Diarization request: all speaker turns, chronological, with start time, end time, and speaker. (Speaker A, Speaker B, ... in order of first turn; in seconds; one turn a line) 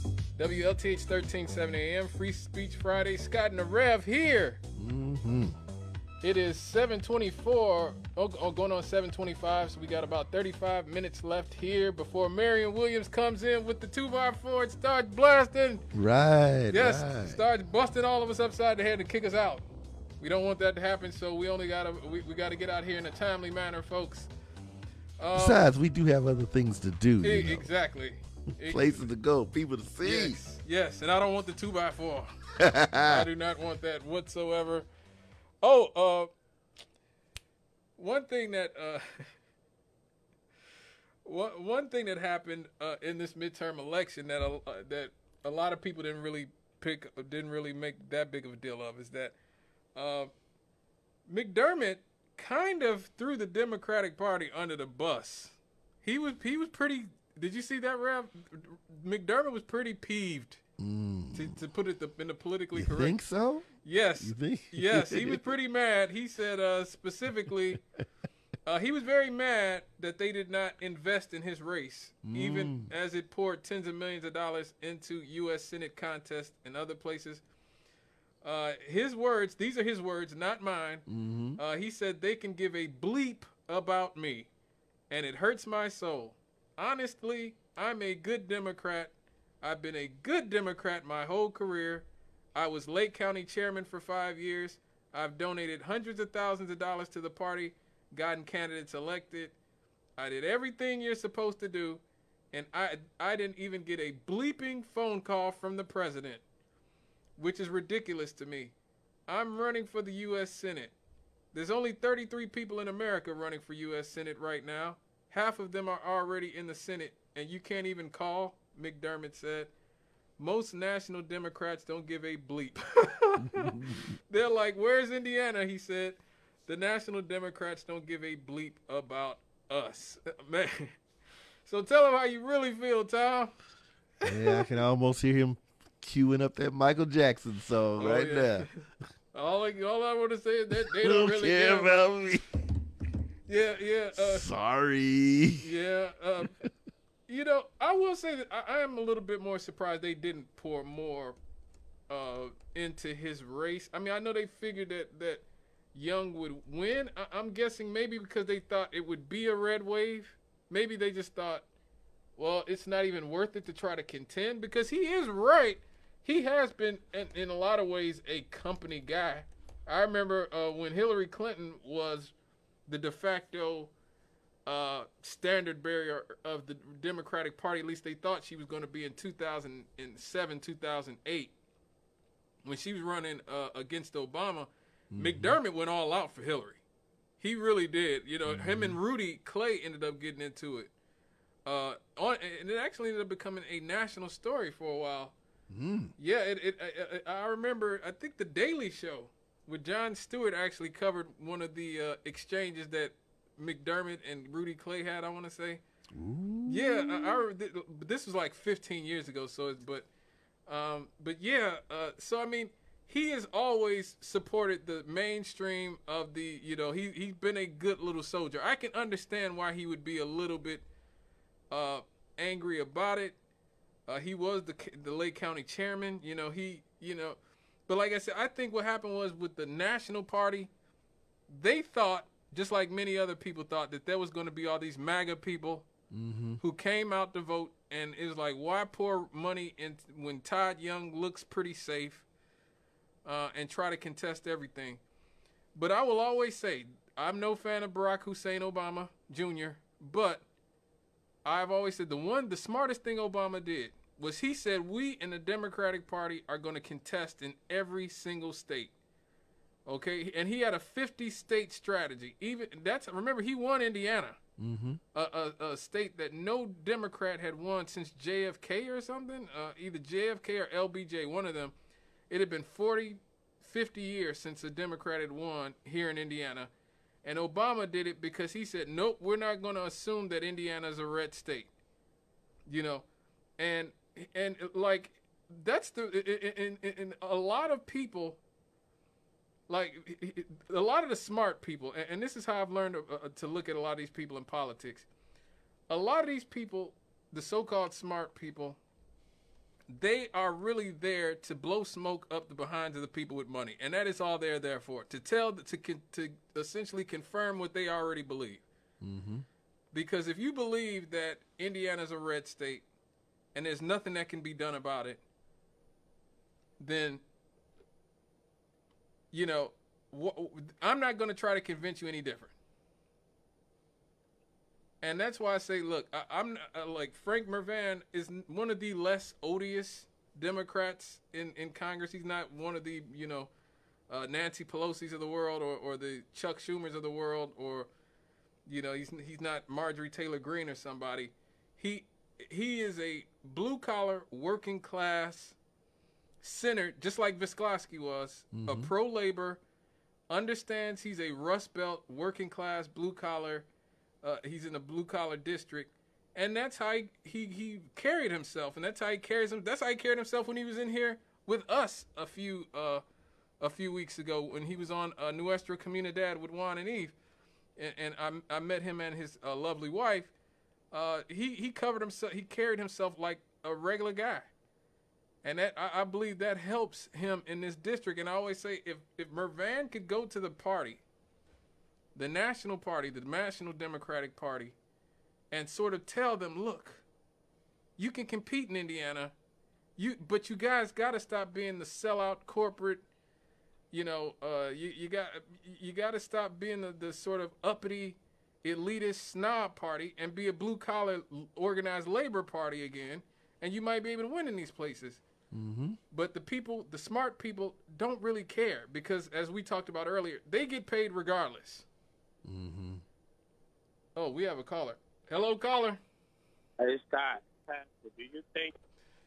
Speaker A: 0.3-4.6
Speaker B: 4.8-5.5
Speaker A: 6.2-15.8
Speaker B: 15.9-17.4
Speaker A: 16.7-19.6
Speaker A: 20.2-24.3
Speaker A: 25.2-25.7
Speaker B: 25.3-27.7
Speaker A: 27.2-29.1
Speaker B: 28.6-30.4
Speaker A: 30.0-32.3
Speaker B: 32.6-33.3
Speaker A: 33.0-34.9
Speaker A: 35.6-36.3
Speaker A: 38.0-39.3
Speaker A: 41.2-49.3
Speaker A: 50.0-50.3
Speaker A: 51.3-60.6
Speaker B: 60.8-61.6
Speaker A: 61.3-63.1
Speaker B: 62.7-65.5
Speaker A: 63.8-67.8
Speaker A: 68.7-77.4
Speaker B: 72.2-72.9
Speaker A: 78.4-84.5
Speaker B: 81.1-81.6
Speaker A: 85.1-99.5
Speaker A: 100.2-106.4
Speaker A: 107.4-108.7
Speaker A: 109.3-110.9
Speaker A: 111.5-119.7
Speaker A: 120.4-130.9
Speaker B: 123.6-124.0
Speaker A: 131.6-133.5
Speaker A: 134.2-134.6
Speaker B: 134.2-138.7
Speaker A: 138.0-142.1
Speaker B: 140.8-142.4
Speaker A: 143.5-144.4
Speaker B: 144.1-145.7
Speaker A: 145.6-146.6
Speaker A: 147.3-151.4
Speaker A: 152.1-161.7
Speaker A: 162.4-172.3
Speaker A: 172.9-173.9
Speaker A: 174.7-181.5
Speaker A: 182.6-186.8
Speaker B: 185.1-185.6
Speaker A: 187.4-190.9
Speaker B: 188.4-189.0
Speaker A: 191.7-195.3
Speaker B: 195.7-196.1
Speaker A: 196.2-205.8
Speaker B: 206.1-207.4
Speaker A: 206.7-210.1
Speaker A: 210.7-220.8
Speaker A: 221.7-223.3
Speaker A: 224.1-227.4
Speaker A: 227.9-230.7
Speaker A: 231.5-235.9
Speaker B: 236.1-236.6
Speaker A: 236.6-242.3
Speaker A: 243.2-245.0
Speaker A: 245.7-250.4
Speaker A: 251.4-258.9
Speaker A: 259.9-264.4
Speaker B: 264.6-265.0
Speaker A: 265.1-271.7
Speaker A: 272.3-276.7
Speaker A: 277.2-281.7
Speaker A: 282.7-283.1
Speaker A: 283.6-288.4
Speaker A: 289.7-295.1
Speaker A: 295.9-298.8
Speaker A: 299.9-308.6
Speaker B: 309.0-309.4
Speaker A: 309.9-312.8
Speaker A: 313.5-315.2
Speaker A: 316.8-317.2
Speaker A: 319.3-322.5
Speaker A: 325.0-333.5
Speaker A: 334.1-337.9
Speaker A: 338.6-345.6
Speaker A: 346.4-349.6
Speaker B: 348.5-348.9
Speaker A: 350.3-353.7
Speaker A: 354.2-363.0
Speaker A: 363.6-367.1
Speaker A: 367.8-370.3
Speaker A: 370.9-374.5
Speaker A: 375.4-381.0
Speaker A: 382.1-384.8
Speaker A: 385.5-387.0
Speaker A: 388.0-389.3
Speaker A: 390.0-393.0
Speaker A: 393.9-405.2
Speaker B: 405.5-406.0
Speaker A: 406.1-411.9
Speaker B: 412.4-413.0
Speaker A: 414.1-416.0
Speaker C: 416.8-418.7